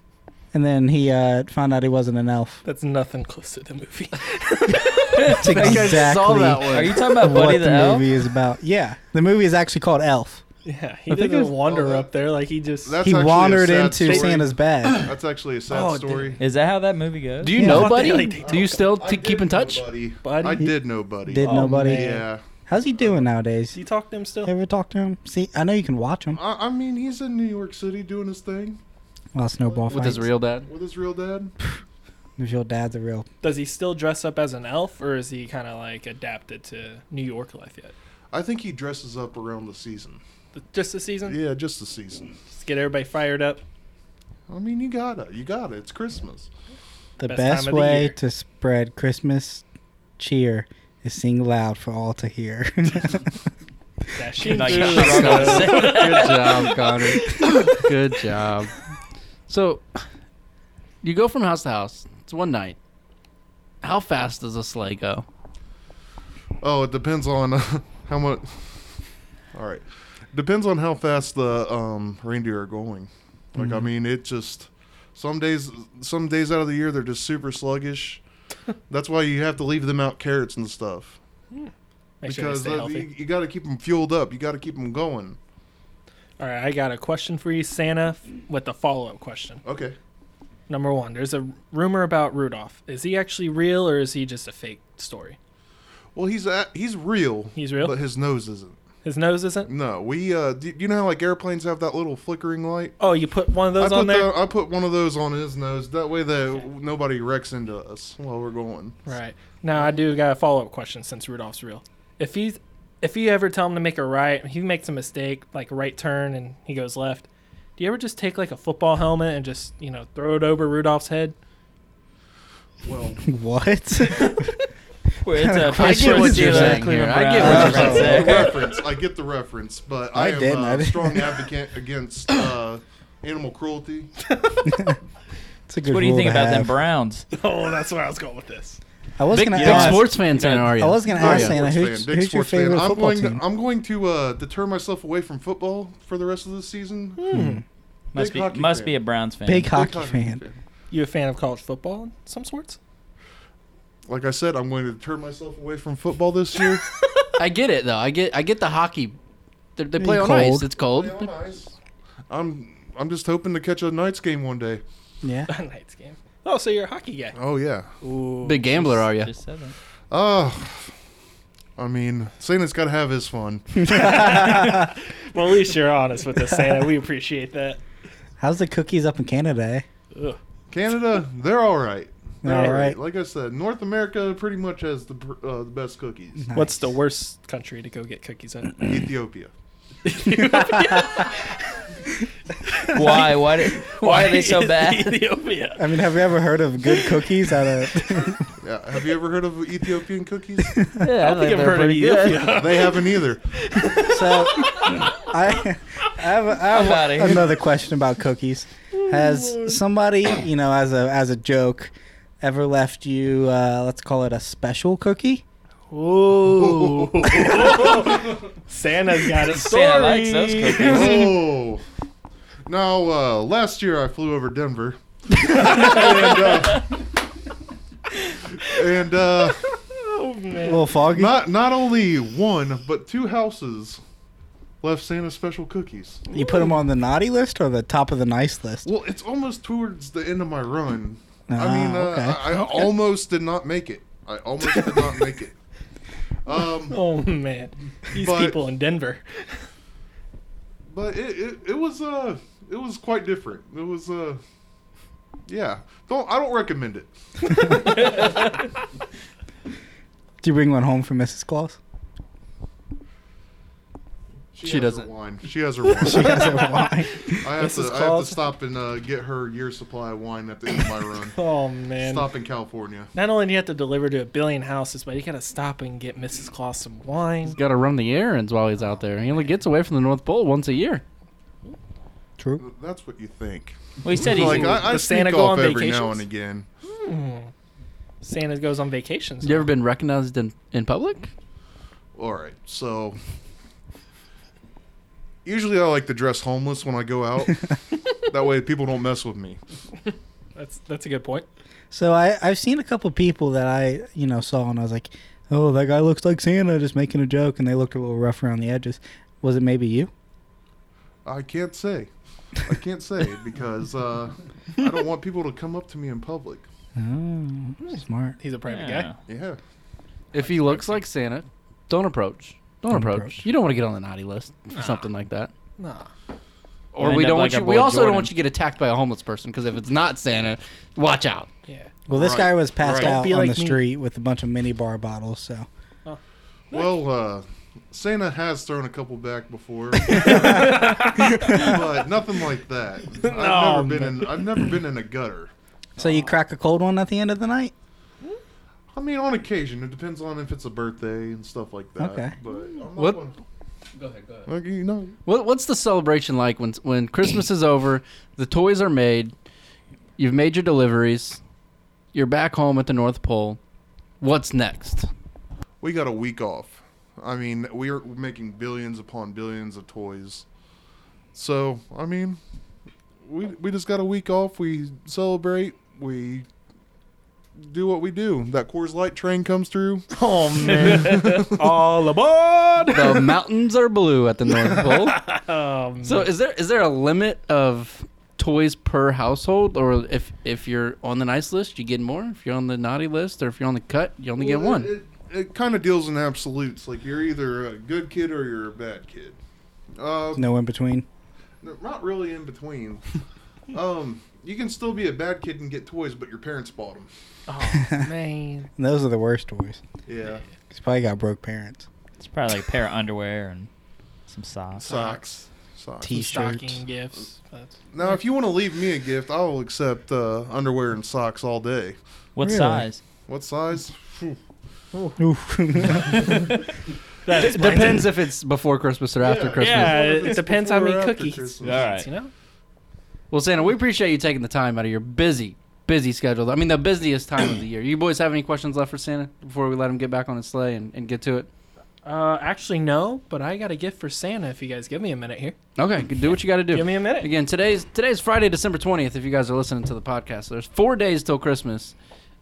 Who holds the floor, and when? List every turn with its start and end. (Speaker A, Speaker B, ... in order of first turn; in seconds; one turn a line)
Speaker A: 0.5-2.6
Speaker B: 2.6-5.4
Speaker C: 5.2-7.0
Speaker A: 5.2-10.4
Speaker D: 5.4-8.1
Speaker B: 10.7-13.0
Speaker C: 11.1-11.5
Speaker E: 11.6-12.1
Speaker E: 12.8-16.4
Speaker A: 13.0-15.1
Speaker B: 14.1-14.3
Speaker B: 15.7-16.4
Speaker D: 16.4-17.9
Speaker C: 17.4-19.9
Speaker A: 17.6-17.9
Speaker B: 17.6-18.9
Speaker E: 18.4-22.4
Speaker B: 20.2-20.7
Speaker A: 21.2-23.8
Speaker B: 21.4-22.2
Speaker B: 23.7-24.5
Speaker A: 24.4-26.4
Speaker E: 26.4-28.8
Speaker A: 29.3-30.3
Speaker E: 29.6-31.5
Speaker C: 29.9-30.7
Speaker A: 32.4-33.3
Speaker B: 33.4-37.9
Speaker E: 38.3-40.2
Speaker B: 40.5-41.4
Speaker E: 41.2-42.3
Speaker B: 42.5-43.6
Speaker E: 44.5-46.5
Speaker A: 47.2-49.6
Speaker B: 47.2-48.1
Speaker A: 50.2-53.3
Speaker B: 54.1-57.9
Speaker D: 54.4-56.4
Speaker C: 54.5-58.7
Speaker C: 59.5-60.0
Speaker C: 61.0-62.8
Speaker C: 63.8-65.3
Speaker E: 66.6-69.0
Speaker E: 69.5-78.2
Speaker E: 78.9-81.2
Speaker B: 82.2-83.1
Speaker E: 82.2-85.4
Speaker B: 86.4-89.6
Speaker E: 89.7-90.0
Speaker B: 90.7-95.4
Speaker E: 96.2-98.8
Speaker B: 97.5-98.0
Speaker B: 99.0-99.7
Speaker E: 99.7-103.0
Speaker B: 103.0-104.4
Speaker E: 103.8-109.0
Speaker B: 109.0-121.4
Speaker E: 122.8-123.2
Speaker A: 123.2-124.5
Speaker B: 124.1-124.5
Speaker D: 125.2-128.7
Speaker A: 125.3-128.4
Speaker C: 125.7-128.3
Speaker E: 127.5-134.1
Speaker A: 130.1-131.3
Speaker B: 134.3-134.8
Speaker A: 134.7-135.0
Speaker A: 135.7-136.7
Speaker D: 135.9-137.3
Speaker B: 137.3-138.8
Speaker A: 139.2-140.2
Speaker C: 139.3-141.6
Speaker D: 139.5-140.7
Speaker A: 140.7-143.4
Speaker E: 141.2-147.2
Speaker B: 147.2-147.6
Speaker A: 147.3-147.6
Speaker D: 148.1-149.8
Speaker E: 148.1-149.0
Speaker A: 149.5-150.4
Speaker E: 149.7-150.6
Speaker B: 150.9-152.8
Speaker E: 154.1-156.8
Speaker C: 157.4-159.2
Speaker C: 159.8-161.3
Speaker A: 160.0-160.7
Speaker E: 160.8-161.8
Speaker E: 162.3-164.8
Speaker A: 165.2-165.5
Speaker B: 165.5-167.4
Speaker E: 167.4-167.9
Speaker B: 168.0-169.0
Speaker C: 168.4-169.3
Speaker D: 169.1-169.8
Speaker E: 170.1-170.9
Speaker E: 171.8-174.1
Speaker B: 173.8-177.8
Speaker A: 173.9-174.9
Speaker A: 178.4-179.8
Speaker E: 180.7-186.5
Speaker A: 182.4-183.0
Speaker B: 182.5-182.8
Speaker A: 186.5-186.9
Speaker B: 186.5-188.9
Speaker E: 188.8-189.5
Speaker B: 190.1-191.6
Speaker B: 192.6-195.9
Speaker D: 192.9-195.2
Speaker A: 195.8-198.4
Speaker B: 196.9-197.2
Speaker E: 198.6-200.8
Speaker A: 200.8-201.0
Speaker D: 201.0-202.4
Speaker C: 201.1-202.6
Speaker B: 201.2-205.3
Speaker E: 202.5-203.4
Speaker A: 204.1-215.4
Speaker D: 206.7-207.6
Speaker B: 209.1-209.8
Speaker B: 215.9-221.4
Speaker E: 216.4-218.4
Speaker D: 219.4-221.3
Speaker E: 220.7-221.8
Speaker E: 222.7-227.0
Speaker B: 225.4-226.7
Speaker E: 228.6-229.7
Speaker B: 229.9-230.9
Speaker A: 230.6-231.4
Speaker E: 231.1-234.0
Speaker E: 234.8-236.2
Speaker A: 236.3-238.9
Speaker B: 236.3-236.7
Speaker E: 238.8-245.6
Speaker A: 241.5-242.7
Speaker B: 244.7-245.1
Speaker E: 246.5-247.0
Speaker B: 246.9-249.6
Speaker E: 248.2-248.6
Speaker E: 250.9-254.4
Speaker E: 255.5-258.2
Speaker B: 257.5-258.6
Speaker A: 260.4-261.8
Speaker E: 264.5-266.7
Speaker C: 264.6-265.1
Speaker A: 266.0-267.4
Speaker B: 266.1-268.4
Speaker E: 267.4-271.4
Speaker B: 271.3-272.3
Speaker E: 272.0-273.1
Speaker B: 273.1-277.6
Speaker C: 277.4-281.0
Speaker A: 282.4-282.6
Speaker E: 282.6-286.7
Speaker D: 284.0-284.9
Speaker B: 284.2-286.2
Speaker B: 286.9-287.5
Speaker B: 288.2-289.7
Speaker C: 289.4-291.3
Speaker E: 292.1-293.2
Speaker E: 295.4-297.6
Speaker E: 298.2-299.6
Speaker B: 300.6-301.5
Speaker A: 301.9-310.1
Speaker E: 311.2-312.1
Speaker E: 312.7-316.7
Speaker A: 317.0-318.4
Speaker B: 317.8-319.1
Speaker D: 318.7-319.1
Speaker E: 319.3-319.6
Speaker C: 320.3-325.5
Speaker A: 322.9-323.4
Speaker B: 324.8-325.0
Speaker B: 325.8-326.1
Speaker C: 326.9-331.5
Speaker D: 327.0-328.3
Speaker A: 332.1-335.7
Speaker E: 332.1-333.2
Speaker B: 332.8-333.8
Speaker E: 336.7-345.5
Speaker B: 340.1-341.8
Speaker A: 340.2-341.7
Speaker B: 343.2-344.3
Speaker A: 346.0-347.7
Speaker B: 346.0-346.3
Speaker E: 348.9-353.4
Speaker A: 352.0-352.3
Speaker C: 354.0-354.5
Speaker E: 354.5-355.2
Speaker C: 355.3-359.3
Speaker C: 360.2-361.4
Speaker C: 362.1-363.6
Speaker C: 364.2-365.1
Speaker E: 365.8-370.5
Speaker E: 371.3-372.4
Speaker E: 373.2-376.5
Speaker E: 377.6-381.8
Speaker B: 380.1-383.3
Speaker C: 382.9-385.2
Speaker B: 384.6-386.3
Speaker C: 386.0-394.9
Speaker E: 394.4-399.4
Speaker E: 399.9-400.5
Speaker A: 400.4-401.1
Speaker E: 401.6-403.0
Speaker E: 403.7-407.1
Speaker B: 407.5-408.7
Speaker A: 407.8-408.1
Speaker A: 408.8-409.8
Speaker E: 410.1-410.4
Speaker A: 410.7-411.9
Speaker D: 412.2-413.7
Speaker D: 414.3-415.0
Speaker B: 414.8-415.4
Speaker E: 414.8-416.3
Speaker A: 416.0-416.8
Speaker B: 416.1-417.8
Speaker E: 417.9-422.0
Speaker D: 422.4-423.0
Speaker A: 422.4-422.9
Speaker E: 423.3-424.4
Speaker A: 425.2-426.5
Speaker B: 426.1-426.4
Speaker B: 427.3-428.1
Speaker C: 427.3-430.1
Speaker E: 429.2-432.0
Speaker B: 429.6-432.3
Speaker D: 431.6-432.1
Speaker C: 433.3-441.5
Speaker B: 442.1-445.6
Speaker C: 445.8-451.9
Speaker B: 446.7-447.3